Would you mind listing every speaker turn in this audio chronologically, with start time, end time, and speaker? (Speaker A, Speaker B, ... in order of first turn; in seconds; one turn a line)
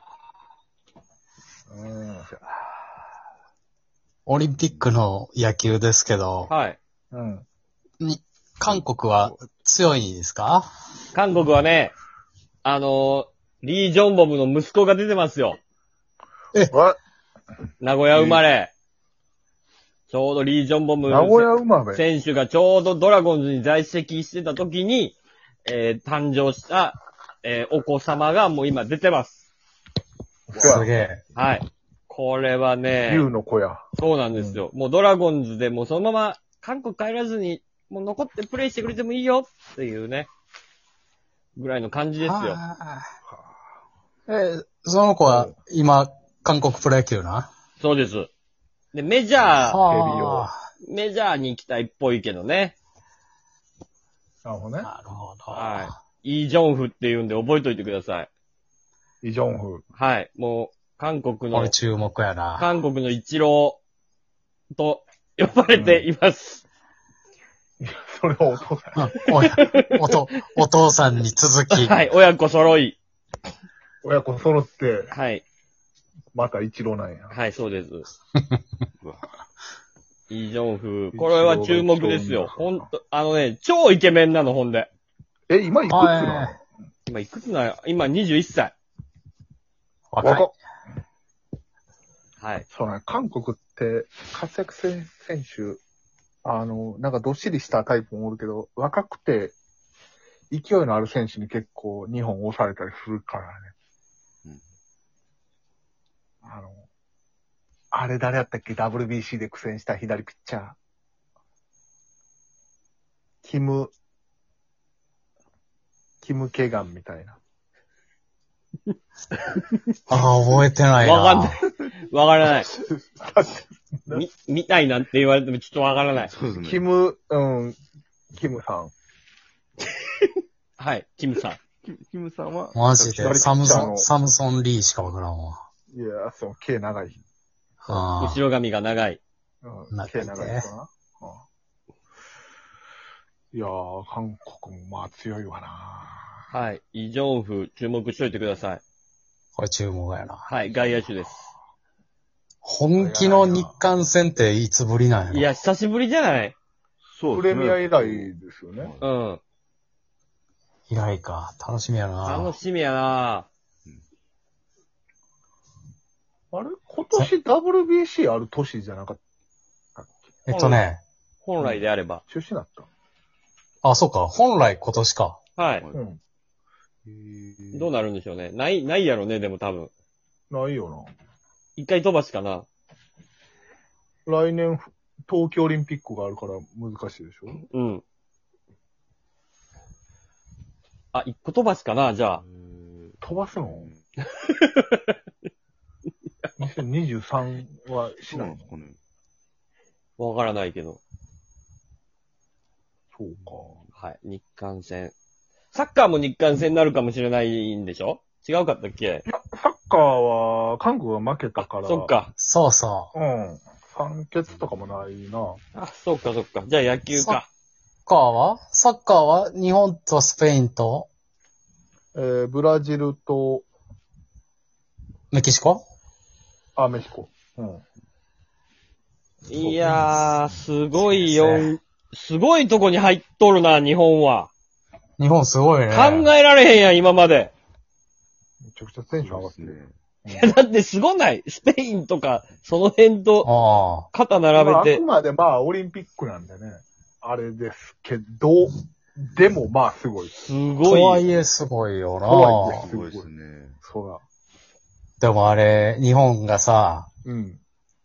Speaker A: 1.7-2.4
Speaker B: 4.3-6.5
Speaker C: 4.6-4.9
Speaker D: 6.5-6.8
Speaker A: 7.1-7.5
Speaker B: 8.0-10.7
Speaker D: 11.1-11.9
Speaker D: 12.6-15.6
Speaker A: 16.7-17.0
Speaker D: 17.8-18.7
Speaker A: 18.1-18.4
Speaker D: 20.1-29.4
Speaker A: 21.1-22.0
Speaker A: 30.5-30.9
Speaker B: 30.6-31.2
Speaker D: 31.4-33.3
Speaker A: 33.1-34.6
Speaker D: 34.0-40.3
Speaker D: 41.6-42.6
Speaker B: 42.2-43.0
Speaker B: 44.3-47.5
Speaker A: 45.2-45.5
Speaker D: 47.8-48.3
Speaker D: 48.9-49.8
Speaker B: 49.5-50.6
Speaker A: 49.8-50.5
Speaker D: 50.8-52.8
Speaker A: 54.5-54.9
Speaker B: 54.8-56.0
Speaker D: 55.5-58.3
Speaker A: 59.2-59.8
Speaker D: 59.9-61.8
Speaker B: 61.5-62.7
Speaker D: 62.6-63.8
Speaker D: 64.7-66.6
Speaker A: 65.7-66.1
Speaker A: 67.8-69.1
Speaker B: 69.0-72.1
Speaker D: 69.3-70.2
Speaker D: 71.7-73.0
Speaker A: 74.0-75.1
Speaker D: 75.1-75.5
Speaker A: 76.3-77.4
Speaker D: 77.3-78.1
Speaker C: 79.0-79.3
Speaker D: 80.3-84.9
Speaker A: 81.1-82.9
Speaker A: 85.5-86.6
Speaker B: 85.9-86.5
Speaker D: 87.1-88.8
Speaker B: 90.1-90.5
Speaker A: 90.2-90.5
Speaker D: 92.4-92.7
Speaker A: 92.7-95.8
Speaker A: 96.5-99.5
Speaker A: 100.5-103.7
Speaker A: 106.4-106.8
Speaker A: 107.9-110.8
Speaker A: 113.4-113.9
Speaker A: 116.2-117.4
Speaker B: 120.1-121.6
Speaker D: 121.0-122.7
Speaker A: 122.8-124.2
Speaker D: 124.1-126.3
Speaker C: 126.3-126.9
Speaker A: 126.6-127.8
Speaker A: 128.3-128.9
Speaker D: 130.8-131.6
Speaker C: 131.8-133.1
Speaker B: 132.7-135.6
Speaker A: 133.1-134.1
Speaker A: 135.9-137.2
Speaker B: 137.8-138.4
Speaker D: 138.2-139.2
Speaker A: 139.6-141.4
Speaker B: 139.9-140.7
Speaker A: 143.5-146.4
Speaker D: 146.5-148.8
Speaker B: 149.6-150.4
Speaker D: 150.5-151.5
Speaker B: 152.6-155.5
Speaker A: 153.0-153.8
Speaker D: 155.3-156.6
Speaker C: 157.1-159.1
Speaker A: 157.3-158.9
Speaker D: 159.0-159.4
Speaker B: 160.9-162.6
Speaker D: 162.2-163.5
Speaker A: 166.5-169.2
Speaker A: 170.0-170.3
Speaker B: 170.5-171.0
Speaker D: 170.5-170.8
Speaker D: 171.4-172.2
Speaker A: 171.6-172.9
Speaker B: 173.8-175.4
Speaker D: 175.6-175.9
Speaker A: 175.9-176.2
Speaker C: 177.1-177.9
Speaker D: 177.7-179.9
Speaker A: 180.5-181.1
Speaker D: 181.8-182.7
Speaker A: 184.3-187.6
Speaker D: 187.7-188.0
Speaker D: 191.1-192.4
Speaker C: 192.4-194.0
Speaker A: 193.2-193.9
Speaker D: 194.3-195.2
Speaker A: 196.6-198.7
Speaker C: 198.3-199.0
Speaker D: 200.2-201.0
Speaker A: 203.1-203.8
Speaker D: 204.0-205.1
Speaker D: 205.7-209.2
Speaker A: 209.3-212.1
Speaker D: 211.6-212.3
Speaker B: 212.4-213.1
Speaker A: 213.1-215.6
Speaker D: 215.8-217.5
Speaker B: 217.1-217.4
Speaker B: 218.1-221.1
Speaker A: 222.2-223.7
Speaker B: 225.3-225.8
Speaker A: 226.8-227.8
Speaker D: 229.5-234.5
Speaker A: 229.5-230.1
Speaker B: 231.0-231.7
Speaker B: 235.2-236.3
Speaker D: 235.9-237.5
Speaker A: 238.6-240.6
Speaker C: 239.2-239.9
Speaker D: 240.3-243.5
Speaker B: 243.4-244.1
Speaker D: 244.1-245.0
Speaker A: 244.5-250.3
Speaker D: 250.4-251.3
Speaker B: 250.8-252.8
Speaker A: 252.3-254.2
Speaker C: 252.7-253.8
Speaker B: 255.2-257.1
Speaker A: 257.2-257.6